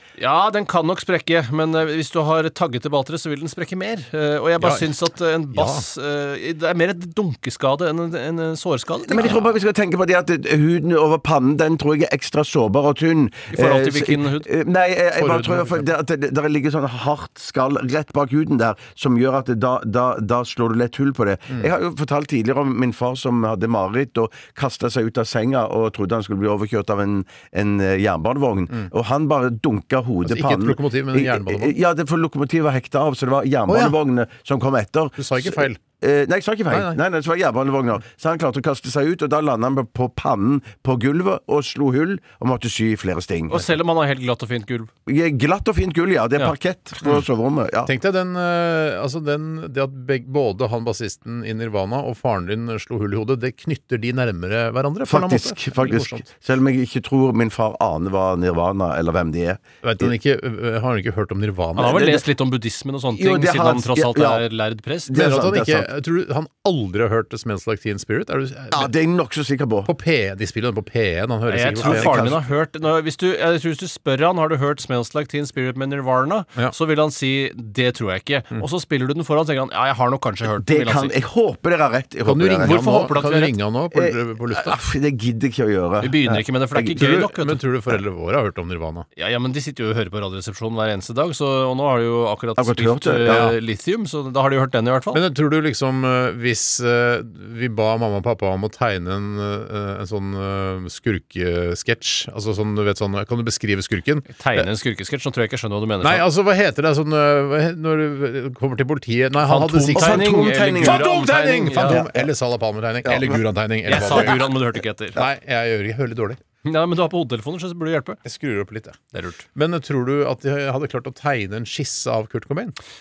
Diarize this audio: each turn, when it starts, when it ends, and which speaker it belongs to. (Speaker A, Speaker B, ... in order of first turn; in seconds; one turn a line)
Speaker A: 0.2-9.3
Speaker B: 4.6-4.9
Speaker B: 5.5-5.8
Speaker C: 9.1-43.7
Speaker B: 9.1-9.4
Speaker A: 13.5-14.5
Speaker B: 15.2-15.9
Speaker B: 30.2-31.8
Speaker B: 33.7-34.0
Speaker B: 35.2-35.8
Speaker B: 36.7-37.0
Speaker A: 43.5-44.9
Speaker C: 45.1-47.9
Speaker B: 47.8-56.2
Speaker C: 55.0-60.1
Speaker B: 59.8-62.1
Speaker A: 61.8-65.1
Speaker C: 61.9-62.2
Speaker C: 63.2-64.4
Speaker C: 65.1-65.9
Speaker B: 65.1-68.9
Speaker C: 68.7-69.9
Speaker B: 69.8-72.2
Speaker A: 71.5-81.1
Speaker C: 71.8-72.4
Speaker C: 80.6-83.0
Speaker B: 82.2-84.8
Speaker A: 82.6-83.6
Speaker C: 83.9-87.1
Speaker A: 86.0-87.6
Speaker B: 87.0-89.0
Speaker A: 89.2-95.2
Speaker C: 92.6-93.5
Speaker B: 93.2-93.6
Speaker B: 95.1-104.7
Speaker A: 104.3-106.2
Speaker B: 106.0-114.5
Speaker A: 109.5-112.0
Speaker C: 109.9-112.3
Speaker C: 113.0-113.4
Speaker A: 113.9-115.2
Speaker B: 115.1-116.4
Speaker A: 116.6-118.2
Speaker B: 118.2-119.0
Speaker A: 119.1-119.4
Speaker B: 119.5-122.8